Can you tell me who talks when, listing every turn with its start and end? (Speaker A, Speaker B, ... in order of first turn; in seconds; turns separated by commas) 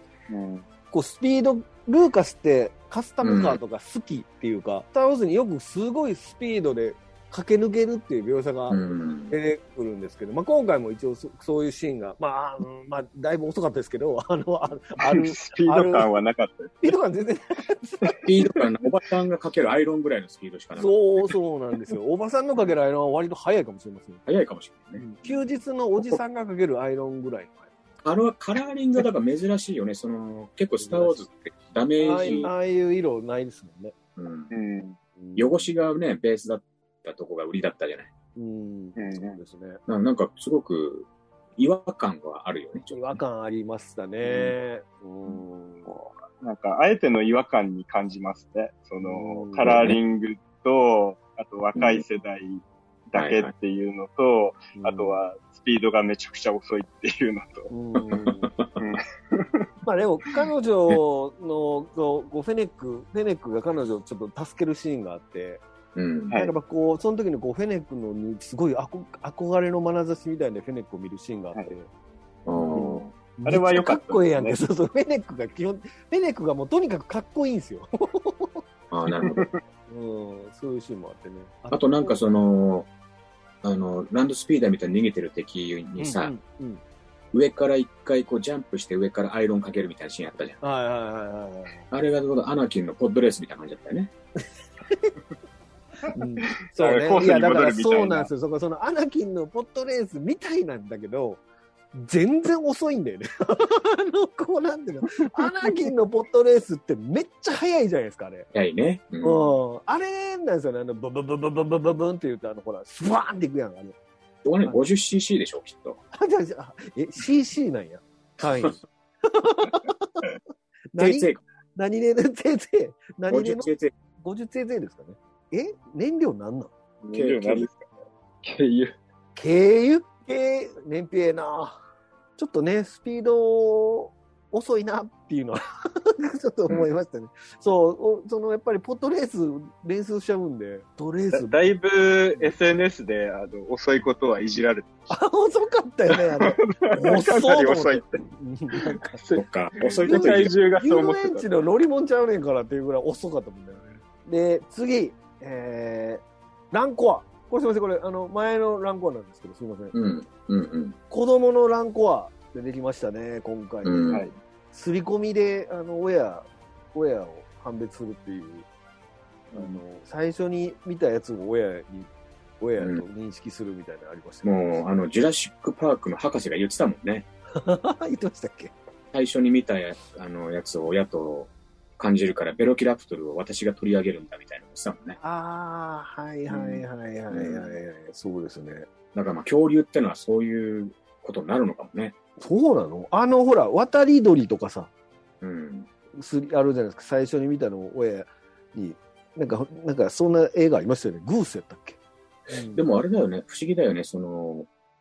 Speaker A: 0.3-0.7, Speaker B: 0.9-16.1, Speaker C: 3.2-3.6, Speaker C: 8.7-9.3, Speaker A: 15.0-16.8, Speaker B: 16.8-18.2, Speaker C: 18.2-21.0, Speaker B: 20.8-24.2, Speaker C: 24.3-25.4, Speaker B: 25.0-27.7, Speaker C: 28.0-32.5, Speaker B: 30.8-31.2, Speaker B: 32.0-34.0, Speaker A: 32.2-32.5, Speaker C: 34.2-34.5, Speaker A: 34.5-35.0, Speaker B: 35.2-35.7, Speaker C: 35.4-38.1, Speaker B: 38.4-39.8, Speaker A: 39.0-39.4, Speaker C: 39.9-43.2, Speaker B: 42.9-45.9, Speaker C: 44.2-44.5, Speaker A: 45.9-57.7, Speaker B: 49.0-49.8, Speaker C: 49.6-50.0, Speaker C: 51.8-52.0, Speaker C: 53.1-53.5, Speaker B: 54.8-55.2, Speaker B: 57.7-58.5, Speaker C: 58.3-58.8, Speaker A: 58.8-59.7, Speaker B: 59.8-65.6, Speaker C: 66.0-66.3, Speaker B: 66.3-71.9, Speaker C: 72.5-73.1, Speaker B: 72.7-78.6, Speaker A: 73.5-74.6, Speaker C: 78.9-79.5, Speaker A: 79.3-79.6, Speaker B: 79.9-82.2, Speaker C: 81.7-82.9, Speaker C: 83.6-86.3, Speaker B: 86.0-86.8, Speaker C: 87.3-90.6, Speaker B: 90.6-91.9, Speaker C: 91.9-94.1, Speaker B: 96.1-101.4, Speaker A: 96.6-98.3, Speaker B: 102.0-108.5, Speaker C: 108.5-109.5, Speaker B: 109.2-114.0, Speaker C: 114.4-116.0, Speaker B: 116.1-120.2, Speaker B: 120.9-123.7, Speaker C: 121.0-121.4, Speaker C: 123.3-123.9, Speaker B: 124.2-126.7, Speaker A: 127.0-127.9, Speaker C: 127.1-127.7, Speaker A: 128.4-128.9, Speaker B: 129.4-131.8, Speaker B: 132.4-141.6, Speaker A: 141.3-145.1, Speaker B: 145.1-149.2, Speaker A: 146.2-148.2, Speaker A: 149.1-151.5, Speaker C: 149.3-150.5, Speaker B: 150.0-159.9, Speaker C: 159.9-161.0, Speaker B: 161.1-168.7, Speaker C: 163.8-164.3, Speaker B: 169.5-174.8, Speaker C: 172.8-173.0, Speaker C: 174.4-177.3, Speaker B: 177.6-178.7, Speaker C: 179.1-185.2, Speaker B: 185.2-188.9, Speaker C: 186.5-187.8, Speaker C: 189.1-192.2, Speaker B: 192.4-194.9, Speaker C: 195.4-195.9, Speaker B: 196.2-202.0, Speaker B: 202.5-202.8, Speaker C: 202.7-204.7